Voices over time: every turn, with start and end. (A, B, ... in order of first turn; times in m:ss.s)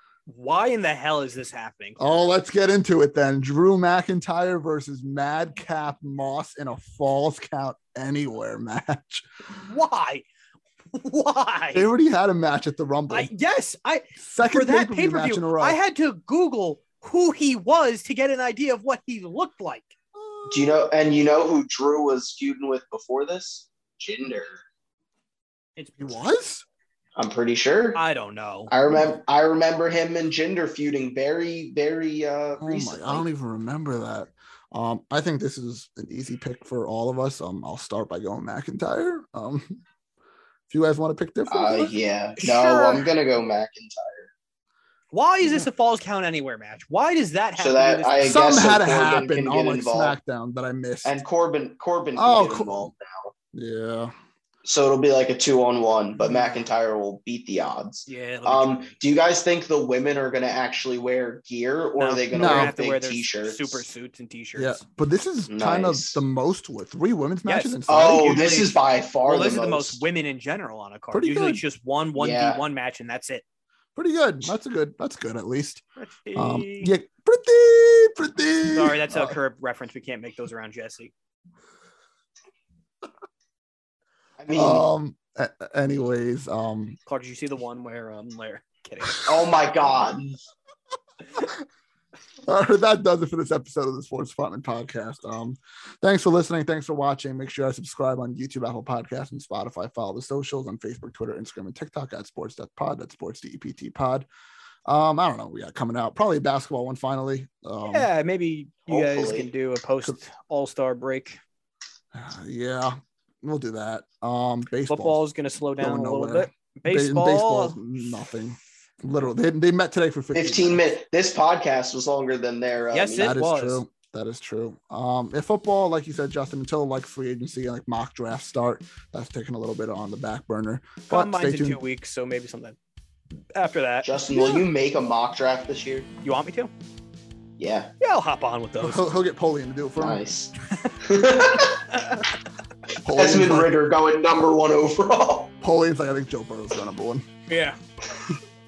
0:00.3-0:02.0 A
0:02.0-0:09.3 B
0:09.6-0:10.2 A
0:10.9-0:11.9 A
0:11.7-0:13.3 B
0:13.1-0:19.9 A
0:14.2-0:15.8 B
0:20.1-0:20.8 B
0:20.5-0:24.6 C
0:25.8-0:26.1 A
0:26.0-0:26.6 B
0:27.2-0:28.0 C
0:27.9-0:28.7 A
0:28.7-0:33.2 C
0:28.9-0:29.2 B
0:32.6-0:39.8 B
0:40.7-0:42.0 B
0:41.5-0:44.3 C
0:42.4-0:43.1 A
0:45.1-0:48.6 A
0:47.6-0:50.2 C
0:48.2-0:51.2 B
0:51.0-0:53.3 C
0:52.2-0:52.9 B
0:53.5-0:54.1 B
0:54.6-1:03.8 C
0:56.2-0:56.6 B
0:58.1-0:58.9 A
1:02.0-1:04.8 A
1:02.3-1:02.7 B
1:04.6-1:08.6 B
1:05.5-1:06.2 C
1:07.4-1:13.4 A
1:07.9-1:10.0 C
1:11.1-1:11.6 B
1:12.2-1:12.6 C
1:13.9-1:15.8 B
1:16.0-1:16.9 A
1:16.3-1:19.4 B
1:18.7-1:21.1 A
1:24.4-1:24.8 C
1:24.5-1:27.0 B
1:27.0-1:29.3 A
1:29.2-1:30.4 C
1:31.3-1:31.6 B
1:32.5-1:44.3 B
1:44.8-1:48.1 B
1:47.9-1:51.4 A
1:48.9-1:49.5 C
1:52.1-1:55.2 B
1:54.9-1:57.8 A
1:55.8-2:00.8 B
2:00.3-2:03.4 C
2:02.9-2:03.8 A
2:03.2-2:11.8 B
2:11.1-2:12.8 A
2:13.5-2:14.6 A
2:14.0-2:16.1 C
2:16.2-2:16.7 A
2:17.6-2:17.9 C
2:18.0-2:19.1 A
2:18.8-2:20.2 B
2:20.0-2:22.0 C
2:20.7-2:21.0 A
2:21.9-2:22.2 A
2:23.0-2:23.7 B
2:23.2-2:25.5 C
2:25.6-2:27.2 B
2:27.5-2:27.8 A